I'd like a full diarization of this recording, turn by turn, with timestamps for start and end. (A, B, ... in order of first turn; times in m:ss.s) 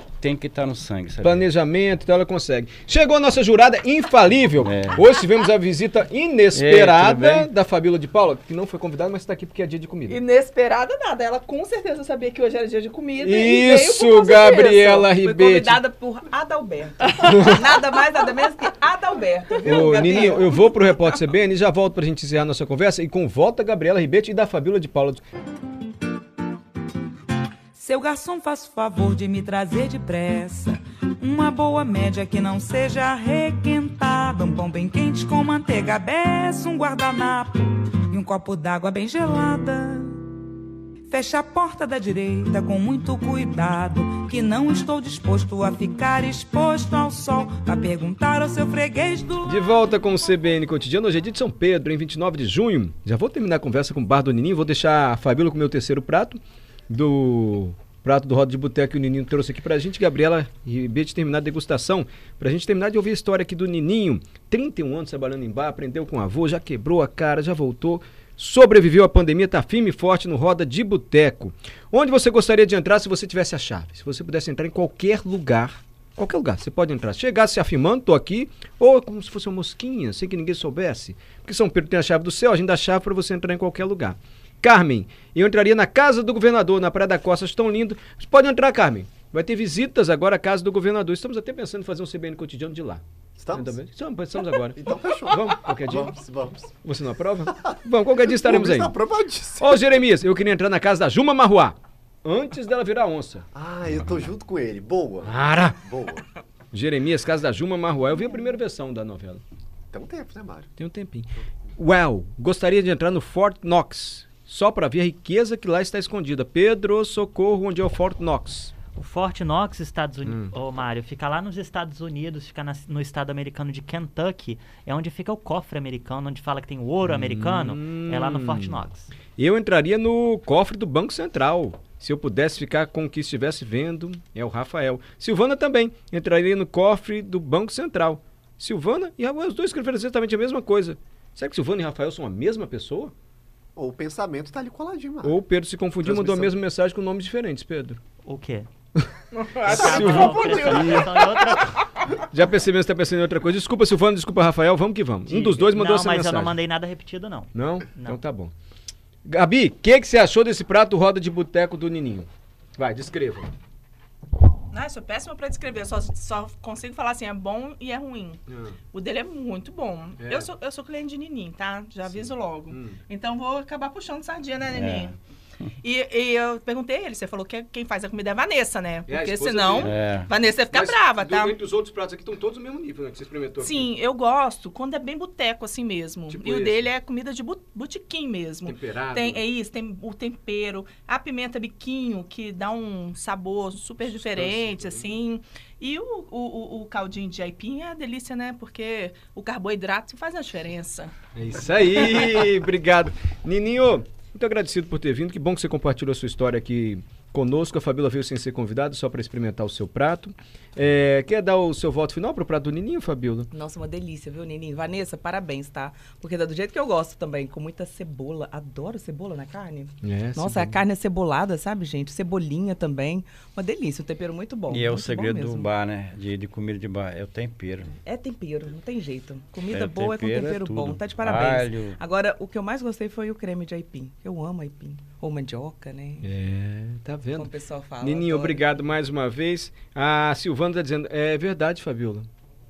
0:00.2-0:01.4 A
0:01.2-0:10.2 B
0:04.6-0:05.1 A
0:06.5-0:07.5 A
0:10.1-0:15.0 C
0:13.2-0:15.8 B
0:14.9-0:20.6 D
0:17.1-0:17.4 C
0:19.6-0:25.2 B
0:19.8-0:20.4 C
0:27.7-0:40.1 E
0:41.1-0:49.5 E
0:49.4-1:36.2 B
1:33.4-1:33.8 F
1:34.7-1:36.8 F
1:36.8-1:39.0 B
1:38.3-1:39.9 F
1:39.6-1:43.4 B
1:43.5-1:46.2 F
1:45.2-1:45.8 B
1:46.7-1:49.4 B
1:49.9-1:50.7 F
1:50.8-1:58.7 B
1:58.9-2:09.1 G
2:00.2-2:00.5 B
2:07.0-2:23.1 B
2:23.8-2:25.4 F
2:25.2-2:28.0 B
2:26.0-2:26.5 F
2:28.2-2:28.7 G
2:29.4-2:31.6 C
2:29.7-2:31.2 B
2:29.7-2:31.7 G
2:29.8-2:31.2 F
2:32.1-2:36.6 B
2:35.3-2:38.2 G
2:37.5-2:38.5 B
2:39.2-2:43.5 B
2:44.7-2:48.4 C
2:48.5-2:48.8 B
2:48.9-2:55.1 C
2:50.2-2:50.5 B
2:52.1-2:53.0 B
2:54.7-2:55.1 A
2:55.8-3:01.6 C
2:59.1-2:59.9 B
2:59.8-3:00.3 A
3:00.7-3:03.9 B
3:03.6-3:21.1 C
3:06.3-3:06.9 B
3:08.6-3:09.4 B
3:14.0-3:15.1 B
3:21.4-3:33.5 B
3:33.5-3:45.7 D
3:40.0-3:40.8 B
3:44.7-3:47.9 A
3:48.0-3:56.3 D
3:49.7-3:52.0 A
3:56.2-4:02.3 B
3:57.3-3:58.6 D